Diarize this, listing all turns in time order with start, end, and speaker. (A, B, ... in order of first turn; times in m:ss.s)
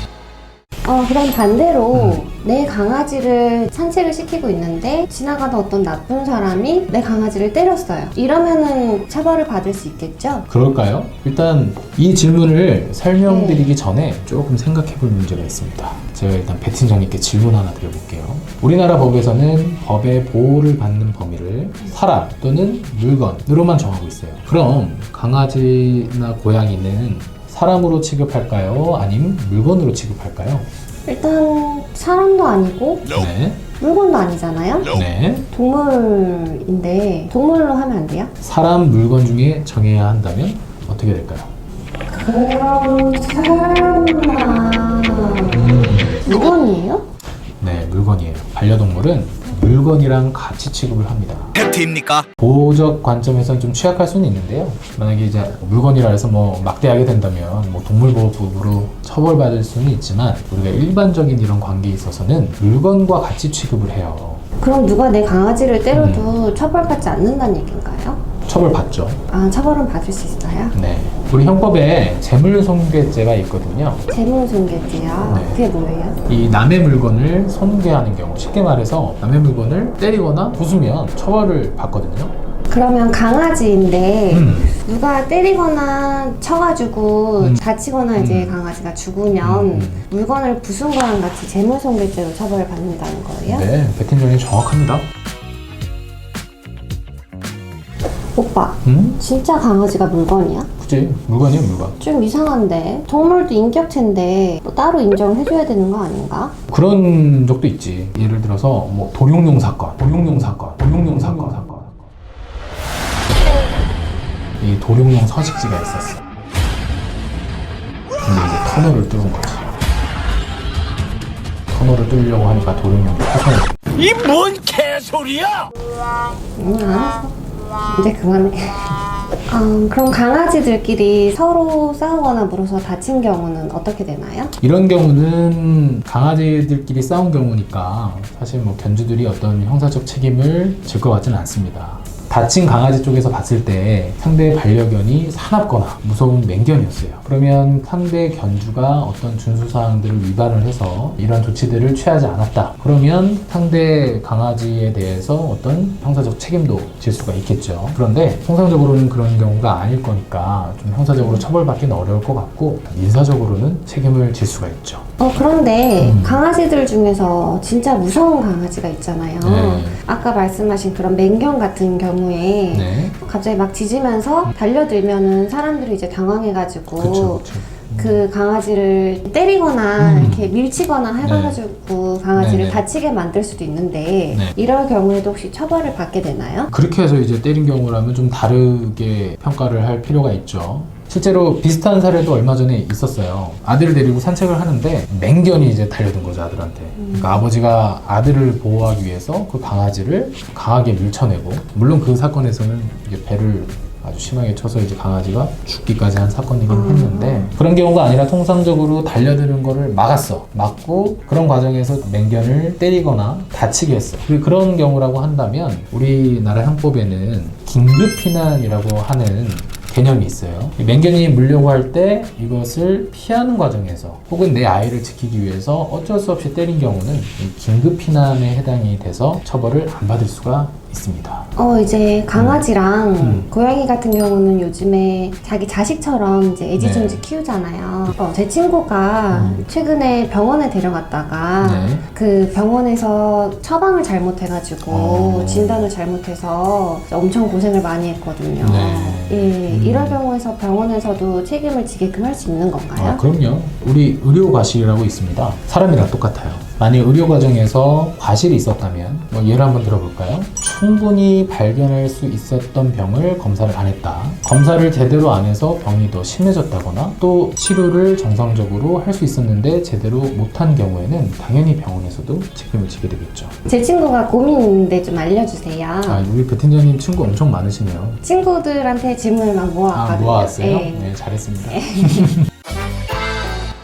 0:00.8-0:10.5 A
0:01.9-0:02.2 B
0:10.5-0:30.7 B
0:13.3-0:13.7 A
0:31.1-0:33.1 A
0:33.1-0:33.6 B
0:33.8-0:34.9 A
0:34.9-0:35.5 B
0:35.5-0:38.3 A
0:38.4-0:41.5 B
0:42.1-0:47.1 A
0:45.5-0:46.2 B
0:47.6-0:51.6 B
0:51.6-0:52.3 C
0:52.4-1:04.4 B
1:04.6-1:08.2 A
1:05.9-1:06.3 B
1:08.5-1:09.2 B
1:09.3-1:10.8 A
1:10.7-1:14.0 B
1:14.1-1:16.2 A
1:15.3-1:15.6 B
1:16.3-1:22.3 B
1:22.7-1:33.7 A
1:24.3-1:24.7 B
1:27.4-1:27.6 B
1:28.2-1:28.6 B
1:29.4-1:30.0 B
1:33.5-1:35.1 B
1:38.4-1:40.7 A
1:38.8-1:39.2 B
1:40.8-1:42.0 B
1:42.0-1:46.6 A
1:46.7-1:52.0 B
1:54.6-1:56.2 B
1:58.2-1:59.7 B
2:01.7-2:03.7 B
2:04.0-2:05.7 C
2:06.6-2:09.0 A
2:09.5-2:14.5 A
2:14.6-2:45.1 B
2:41.2-2:41.4 A
2:45.2-3:06.7 A
2:46.0-2:46.4 B
2:49.4-2:50.0 B
2:52.7-2:53.1 B
2:57.0-2:58.2 B
3:00.0-3:00.5 B
3:01.2-3:01.6 B
3:02.3-3:02.8 B
3:06.7-3:51.5 B
3:17.0-3:17.4 A
3:26.7-3:27.5 A
3:51.6-4:13.2 A
3:52.4-3:52.6 B
3:53.2-3:53.5 B
3:56.8-3:57.2 B
3:59.3-3:59.6 B
4:01.6-4:02.0 B
4:04.9-4:05.9 B
4:08.6-4:10.2 B
4:13.0-4:33.6 B
4:33.7-4:36.2 A
4:36.1-4:38.2 B
4:38.2-4:41.1 A
4:39.9-4:42.5 B
4:41.7-4:42.3 A